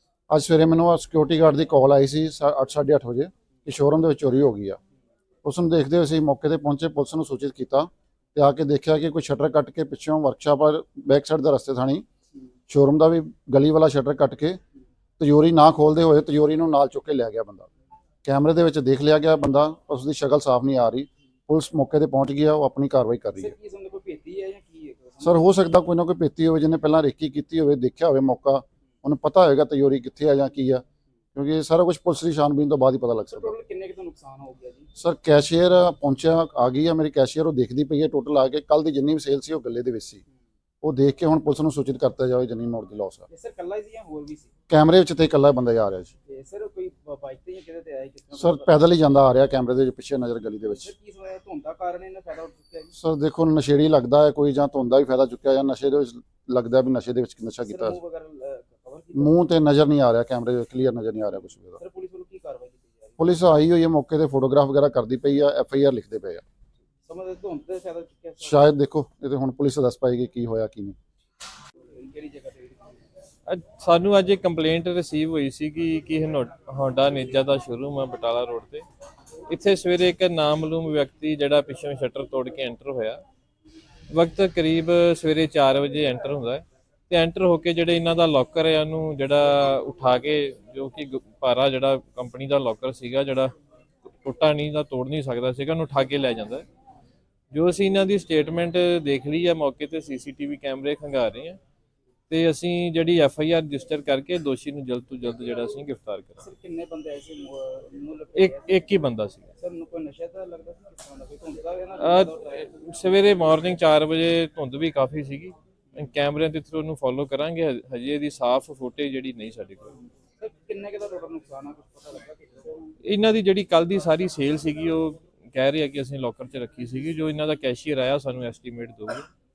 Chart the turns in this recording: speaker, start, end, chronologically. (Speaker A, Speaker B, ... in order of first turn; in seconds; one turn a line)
Speaker A: 0.3-4.8
Speaker A: 5.4-12.0
Speaker A: 12.7-14.6
Speaker A: 15.2-17.7
Speaker A: 18.2-23.6
Speaker B: 23.4-25.4
Speaker A: 25.2-30.8
Speaker A: 31.4-33.5
Speaker B: 33.3-34.9
Speaker A: 35.0-40.2
Speaker A: 40.8-43.3
Speaker B: 43.3-44.5
Speaker A: 44.7-46.1
Speaker B: 46.3-48.8
Speaker A: 48.4-50.9
Speaker B: 50.6-53.0
Speaker A: 53.0-58.0
Speaker B: 57.6-59.4
Speaker A: 59.1-61.8
Speaker B: 61.8-63.2
Speaker A: 63.2-66.4
Speaker B: 67.0-68.7
Speaker A: 68.4-71.0
Speaker B: 71.9-73.0
Speaker C: 73.5-78.8
Speaker C: 79.5-83.2
Speaker C: 84.1-93.5
Speaker C: 94.2-96.7
Speaker C: 97.5-101.6
Speaker C: 102.3-106.4
Speaker B: 106.4-108.9
Speaker C: 108.4-109.5
Speaker B: 109.6-112.8
Speaker C: 112.0-119.9
Speaker B: 120.4-122.9
Speaker C: 123.0-129.3